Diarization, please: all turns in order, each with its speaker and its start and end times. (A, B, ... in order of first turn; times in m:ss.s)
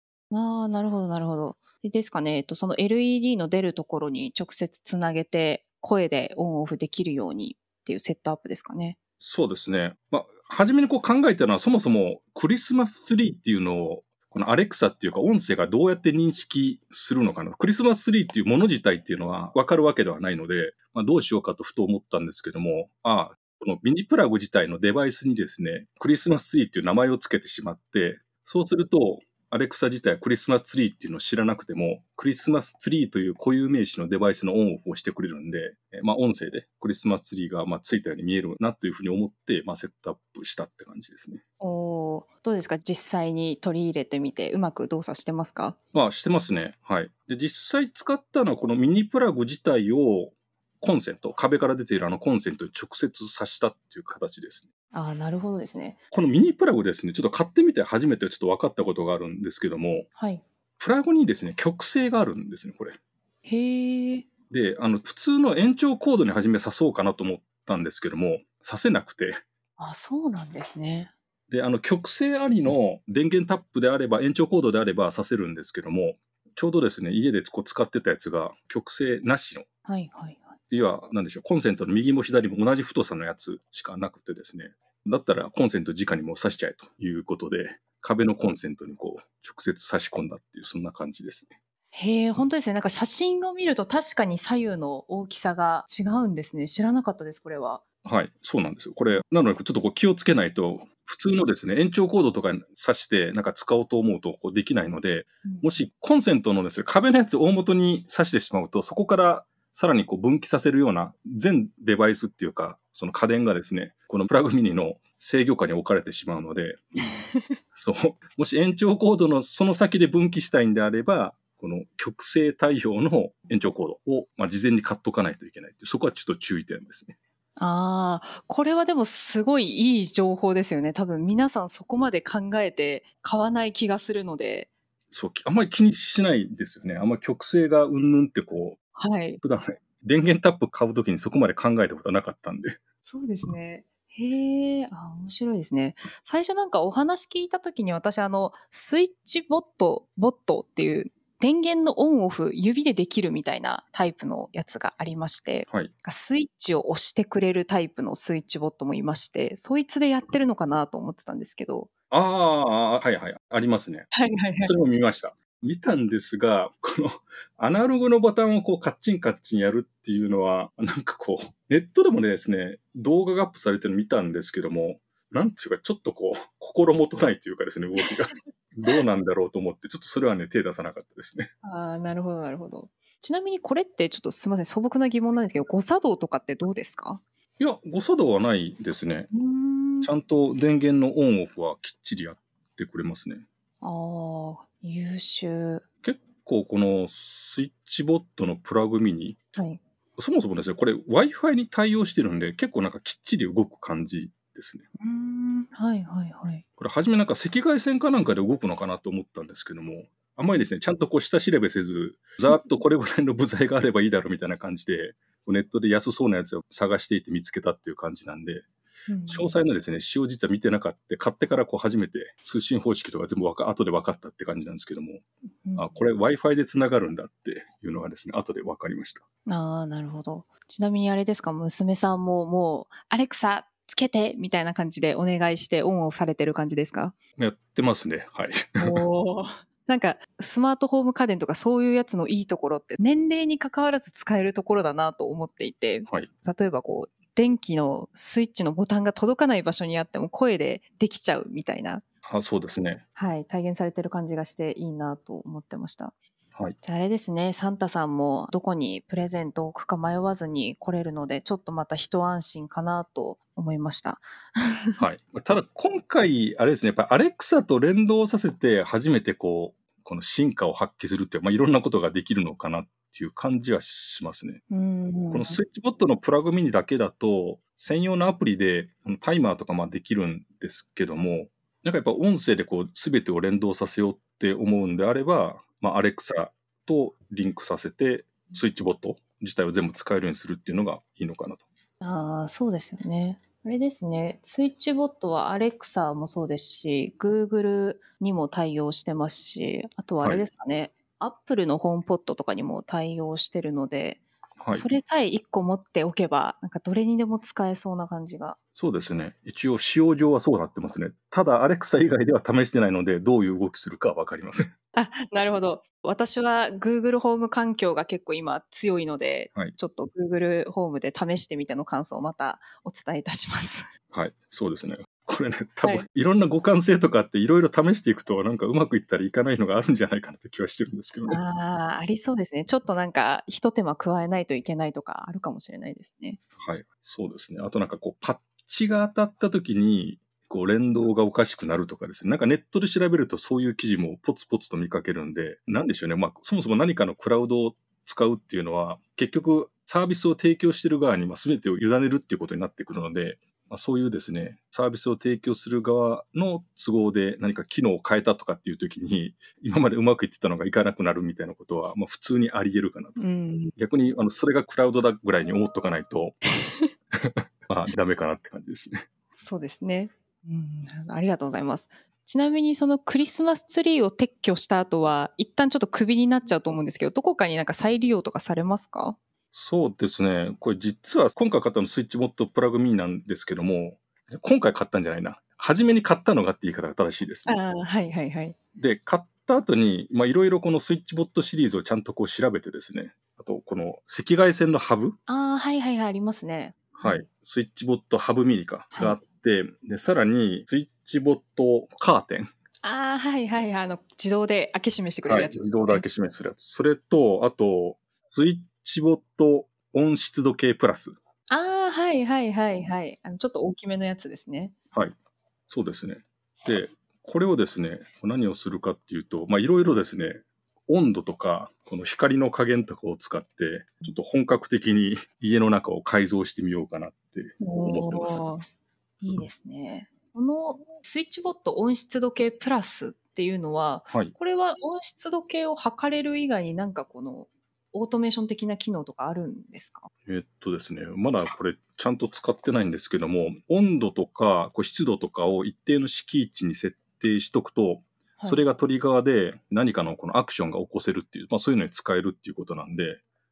0:00.3-0:09.0 A
0:09.2-0:41.4 B
0:41.6-0:45.8 A
0:45.9-0:54.7 B
0:54.9-0:56.0 A
0:56.1-1:00.1 B
1:00.2-1:00.4 A
1:00.8-1:03.0 B
1:03.4-1:04.2 A
1:04.5-1:09.4 B
1:09.8-1:11.1 A
1:11.5-1:19.7 B
1:19.8-1:20.5 A
1:20.7-1:31.5 B
1:31.9-1:37.8 A
1:38.0-1:56.8 B
1:57.8-2:07.2 B
2:07.6-2:14.7 A
2:15.1-2:18.8 B
2:19.0-2:19.4 A
2:19.4-2:22.8 B
2:23.1-2:41.9 A
2:42.1-2:44.1 B
2:44.1-2:44.7 A
2:44.6-3:01.5 B
3:01.6-3:07.2 A
3:07.6-3:09.3 B
3:09.3-3:10.1 A
3:10.0-3:13.4 B
3:13.8-3:15.8 A
3:16.0-3:19.4 B
3:19.6-3:19.8 A
3:20.2-3:24.8 B
3:25.0-3:26.6 A
3:26.8-3:38.7 B
3:39.1-3:39.5 A
3:39.3-3:45.2 B
3:45.6-3:45.9 A
3:45.8-3:49.2 B
3:49.5-3:57.2 A
3:57.4-3:59.0 B
3:58.8-4:12.0 A
4:12.2-4:13.0 B
4:13.2-4:16.1 A
4:16.8-4:25.0 A
4:25.0-4:34.6 B
4:34.7-4:35.6 A
4:35.3-4:51.6 B
4:52.0-5:08.6 A
5:04.6-5:04.9 B
5:08.8-5:14.7 B
5:14.9-5:23.9 A
5:24.1-5:31.4 B
5:31.3-5:36.4 A
5:36.6-6:03.2 B
6:03.2-6:03.7 A
6:03.8-6:06.4 B
6:06.6-6:06.9 A
6:07.1-6:09.0 B
6:09.4-6:19.2 A
6:19.5-6:27.6 B
6:27.5-6:28.6 A
6:28.8-6:35.2 B
6:35.3-6:37.2 A
6:37.0-6:42.5 B
6:42.8-6:46.0 A
6:45.3-6:51.1 B
6:51.5-6:54.7 A
6:55.7-7:08.4 B
7:07.6-7:08.6 A
7:09.2-7:20.1 A
7:20.3-7:33.2 B